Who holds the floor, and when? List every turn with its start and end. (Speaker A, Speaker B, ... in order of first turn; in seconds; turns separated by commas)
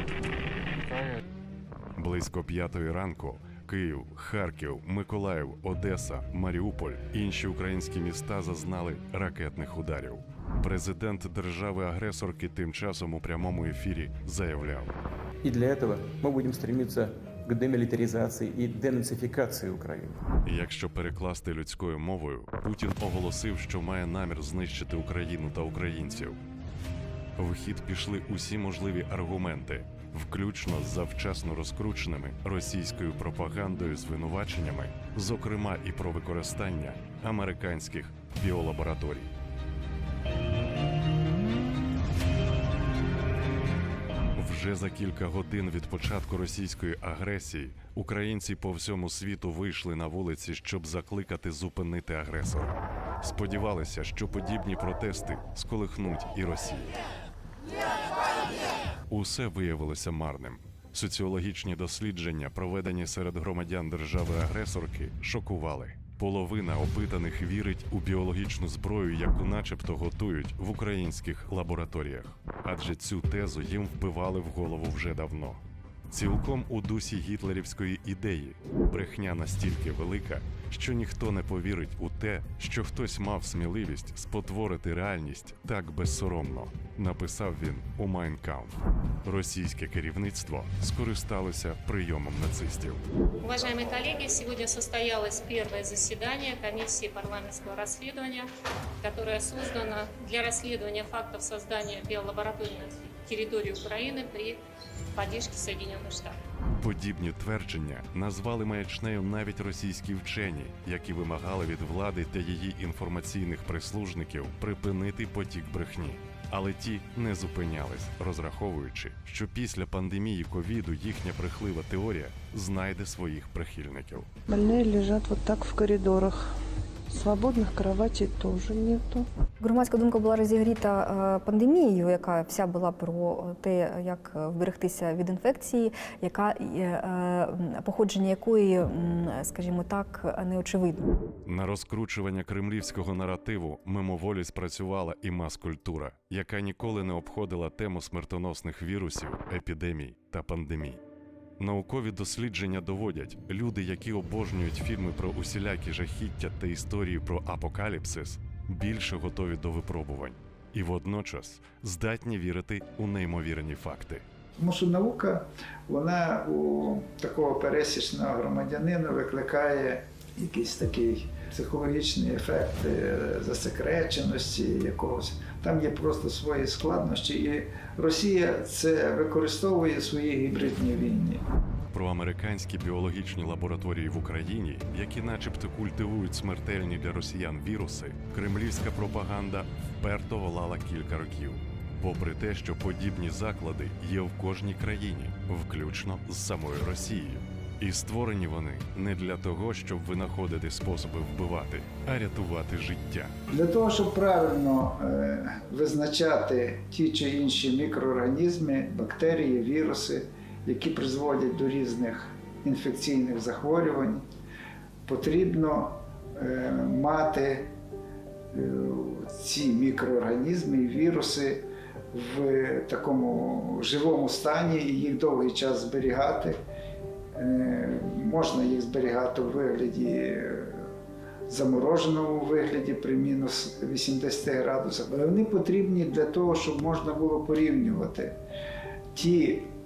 Speaker A: 2.0-14.9, Speaker B: 15.4-20.2, Speaker A: 20.4-26.4, Speaker A: 27.4-39.3, Speaker A: 44.4-57.0, Speaker A: 59.1-93.0, Speaker C: 93.4-98.5, Speaker C: 99.0-104.6, Speaker C: 105.2-106.4, Speaker A: 106.8-124.3, Speaker D: 124.5-126.6, Speaker D: 127.1-129.3, Speaker E: 129.6-141.1, Speaker A: 141.4-151.0, Speaker A: 151.6-164.2, Speaker F: 164.6-181.4, Speaker A: 181.9-203.3, Speaker F: 203.5-214.2, Speaker F: 215.1-217.7, Speaker F: 218.5-226.6, Speaker F: 227.3-230.9, Speaker F: 231.5-238.4, Speaker F: 239.1-239.7